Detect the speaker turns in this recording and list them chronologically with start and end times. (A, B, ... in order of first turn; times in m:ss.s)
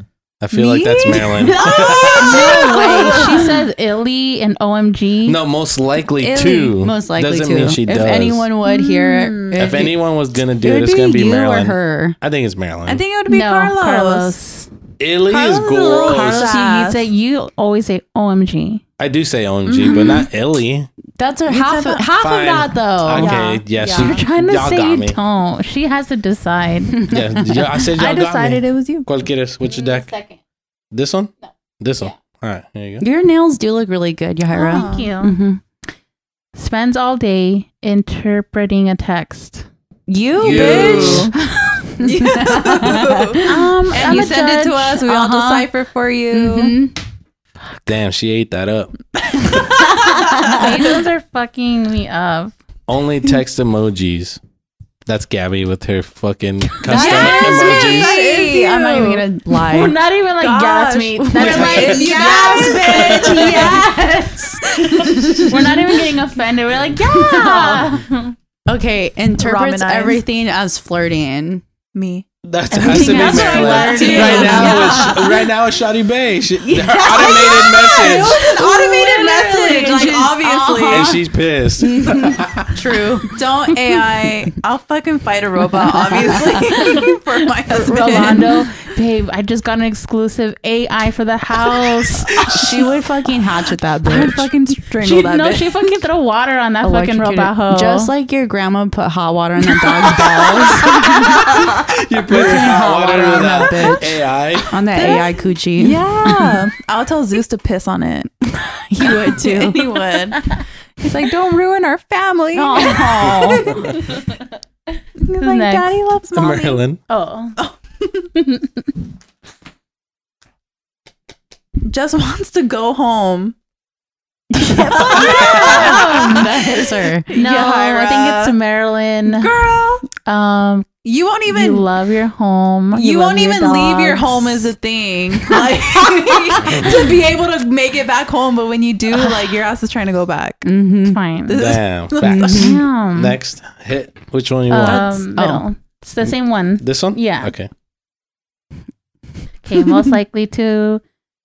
0:00.4-0:02.4 A
0:00.5-0:03.6 B
0:02.1-0:03.5 C
0:02.2-0:05.4 D
0:05.2-0:08.4 A
0:06.2-0:06.8 B
0:06.8-0:10.0 C
0:08.6-0:09.8 B
0:09.5-0:13.0 A
0:10.6-0:12.2 C
0:12.8-0:14.4 B
0:13.3-0:14.7 D
0:15.0-0:16.5 A
0:15.3-0:17.1 B
0:16.1-0:18.8 D
0:19.0-0:20.9 A
0:19.6-0:20.2 B
0:21.2-0:23.4 C
0:21.5-0:22.1 B
0:22.2-0:25.2 A
0:23.1-0:24.2 B
0:23.8-0:27.0 D
0:26.9-0:27.7 C
0:27.0-0:30.1 A
0:27.9-0:29.1 B
0:29.6-0:30.4 D
0:30.9-0:33.0 A
0:33.0-0:35.6 C
0:34.5-0:35.4 D
0:34.6-0:35.1 B
0:36.5-0:39.7 D
0:40.1-0:44.3 C
0:40.4-0:41.3 B
0:40.4-0:41.3 A
0:42.0-0:46.8 B
0:43.4-0:45.0 D
0:45.0-0:45.7 C
0:46.3-0:46.9 C
0:47.8-0:49.8 A
0:49.4-0:50.7 B
0:49.8-0:50.6 C
0:50.4-0:52.5 D
0:52.9-0:54.4 A
0:55.0-0:58.2 A
0:56.8-0:59.3 B
0:56.8-1:00.0 C
0:59.7-1:02.5 D
1:00.4-1:03.9 B
1:01.2-1:05.7 C
1:01.4-1:01.8 A
1:02.6-1:03.7 A
1:04.6-1:05.6 B
1:05.4-1:08.3 D
1:07.1-1:07.9 C
1:08.7-1:11.6 C
1:09.4-1:10.2 B
1:11.9-1:12.2 B
1:12.4-1:18.4 A
1:12.7-1:15.0 D
1:12.8-1:15.5 B
1:13.0-1:15.3 C
1:16.6-1:21.2 C
1:16.8-1:21.2 B
1:20.9-1:22.7 A
1:21.8-1:23.4 C
1:23.3-1:28.6 B
1:26.0-1:27.1 C
1:27.7-1:32.6 D
1:28.1-1:28.4 C
1:32.5-1:34.5 C
1:34.0-1:36.0 B
1:35.0-1:38.1 D
1:36.8-1:41.7 C
1:40.6-1:44.8 A
1:42.3-1:46.6 C
1:44.9-1:48.3 B
1:48.5-1:50.0 C
1:49.0-1:53.9 B
1:52.5-1:53.9 C
1:53.2-1:53.9 A
1:55.2-1:56.8 B
1:55.4-1:56.0 D
1:56.3-1:57.0 A
1:57.1-1:57.6 D
1:57.6-1:58.3 B
1:58.4-1:58.6 D
2:01.8-2:03.6 B
2:04.5-2:07.3 C
2:04.8-2:08.5 B
2:05.1-2:06.5 D
2:07.3-2:09.5 D
2:09.2-2:10.0 B
2:10.2-2:10.9 D
2:11.0-2:11.8 B
2:11.5-2:14.7 D
2:12.9-2:20.6 B
2:16.6-2:17.1 A
2:20.6-2:21.2 C
2:21.1-2:21.6 D
2:21.5-2:22.7 B
2:21.5-2:25.2 A
2:22.2-2:22.8 C
2:22.5-2:23.4 D
2:24.7-2:27.5 D
2:25.3-2:25.6 C
2:26.8-2:27.7 A
2:29.6-2:31.0 D